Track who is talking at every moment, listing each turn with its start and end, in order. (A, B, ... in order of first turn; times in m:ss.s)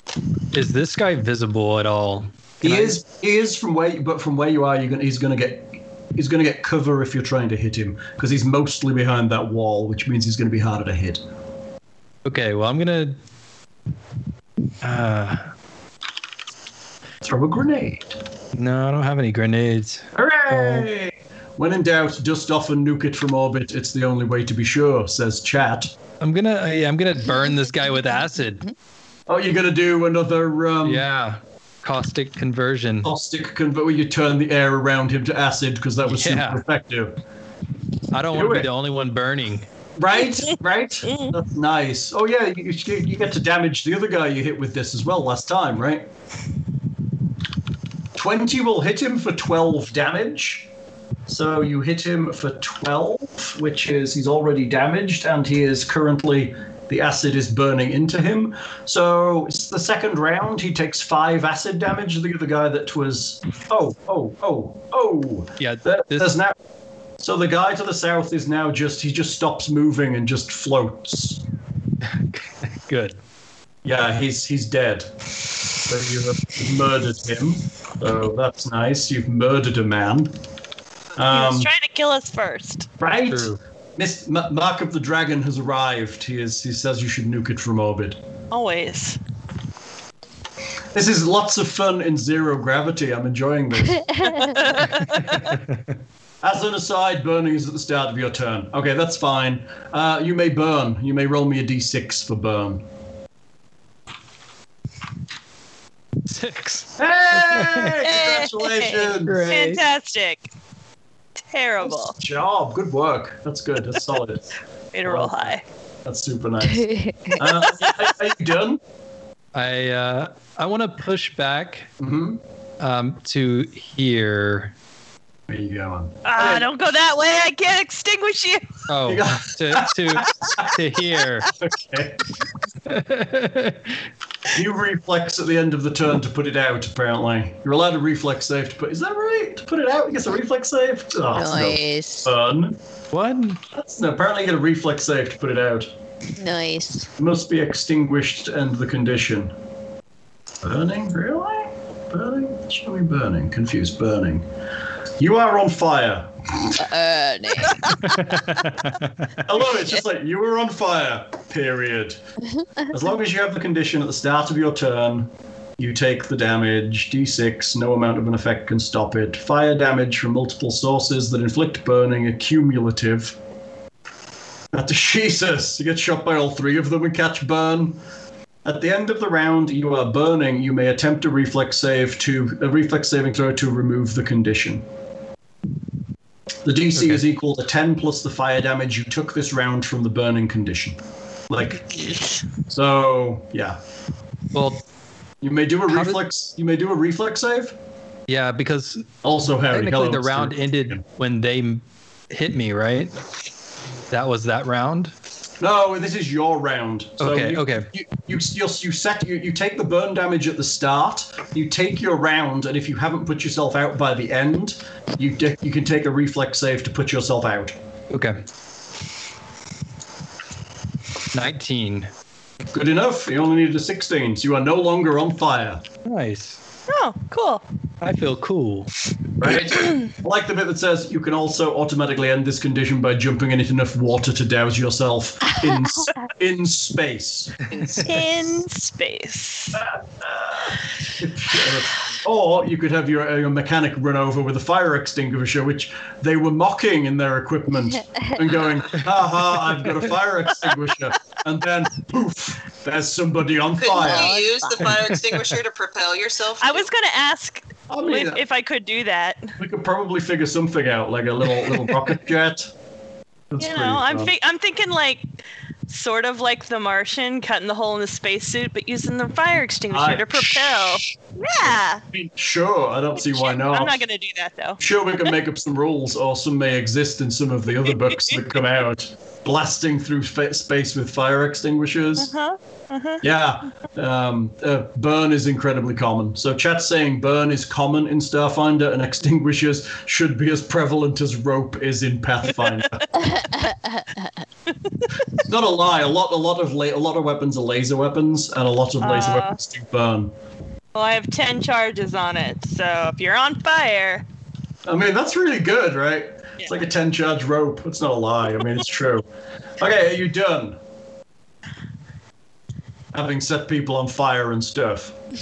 0:00.5-0:03.0 A
0:02.6-0:11.2 B
0:12.2-0:13.2 A
0:14.8-0:15.5 A
0:17.2-0:18.2 B
0:18.5-0:20.9 A
0:20.1-0:25.9 B
0:26.2-0:28.7 A
0:29.3-0:31.1 B
0:30.8-0:33.1 A
0:33.0-0:37.2 B
0:36.1-0:36.6 A
0:38.1-0:39.7 A
0:38.3-0:38.7 B
0:40.0-0:46.1 B
0:48.1-0:50.7 B
0:51.3-1:06.6 B
1:05.6-1:06.3 A
1:07.2-1:11.4 B
1:12.0-1:13.2 A
1:13.8-1:15.1 B
1:15.7-1:20.3 B
1:21.2-1:21.7 B
1:21.3-1:22.9 C
1:23.0-1:28.2 B
1:23.3-1:23.6 A
1:28.5-1:29.2 C
1:30.9-1:34.2 B
1:34.0-1:34.6 D
1:34.4-1:35.4 C
1:35.0-1:35.8 A
1:36.4-1:42.8 B
1:46.2-1:48.0 A
1:47.0-1:49.5 B
1:48.0-1:50.5 C
1:49.2-1:49.8 A
1:51.5-1:52.2 C
1:51.8-1:54.5 B
1:54.9-1:55.6 C
1:55.0-1:58.8 B
1:56.6-1:57.4 D
1:57.6-1:57.9 C
1:59.5-2:01.9 A
2:02.0-2:02.4 B
2:02.8-2:04.7 A
2:05.5-2:06.7 B
2:06.2-2:08.8 C
2:08.9-2:11.5 A
2:09.0-2:10.8 B
2:11.5-2:12.2 B
2:12.8-2:14.0 A
2:14.5-2:22.8 B
2:21.3-2:22.3 D
2:23.1-2:23.6 A
2:23.7-2:25.9 B
2:26.4-2:27.1 D
2:27.2-2:29.5 B
2:30.6-2:34.5 B
2:35.2-2:36.8 B
2:36.7-2:38.0 D
2:38.0-2:39.3 A
2:39.4-2:42.2 B
2:42.9-2:53.4 B
2:54.7-2:58.0 B
2:58.6-3:04.8 B
3:06.6-3:12.1 B
3:06.9-3:07.2 A
3:12.7-3:13.8 B
3:14.5-3:14.8 A
3:15.4-3:17.8 B
3:15.9-3:16.2 A
3:18.3-3:19.1 A
3:19.2-3:21.0 B
3:19.7-3:23.1 A
3:24.1-3:25.1 A
3:25.6-3:37.8 B
3:27.2-3:27.9 A
3:38.1-3:38.4 A
3:41.3-3:42.1 A
3:42.7-3:45.9 B
3:46.0-3:46.6 A
3:46.9-3:47.6 C
3:48.0-3:48.9 A
3:49.4-3:57.6 B
3:57.7-3:58.3 E
3:58.0-3:59.8 C
3:59.7-4:14.4 B
4:13.8-4:16.9 E
4:13.8-4:15.0 D
4:15.0-4:15.3 A
4:16.6-4:19.5 C
4:17.9-4:18.4 B
4:19.6-4:22.7 B
4:23.5-4:24.3 B
4:23.6-4:25.2 C
4:25.9-4:32.0 C
4:29.9-4:34.0 B
4:33.2-4:34.8 C
4:34.8-4:42.3 B
4:42.2-4:43.2 C
4:43.2-4:53.1 B
4:53.1-4:54.3 D
4:55.3-5:00.3 B
4:59.0-4:59.6 C
5:00.9-5:04.2 C
5:04.8-5:09.2 B
5:09.8-5:10.8 B
5:13.1-5:15.2 B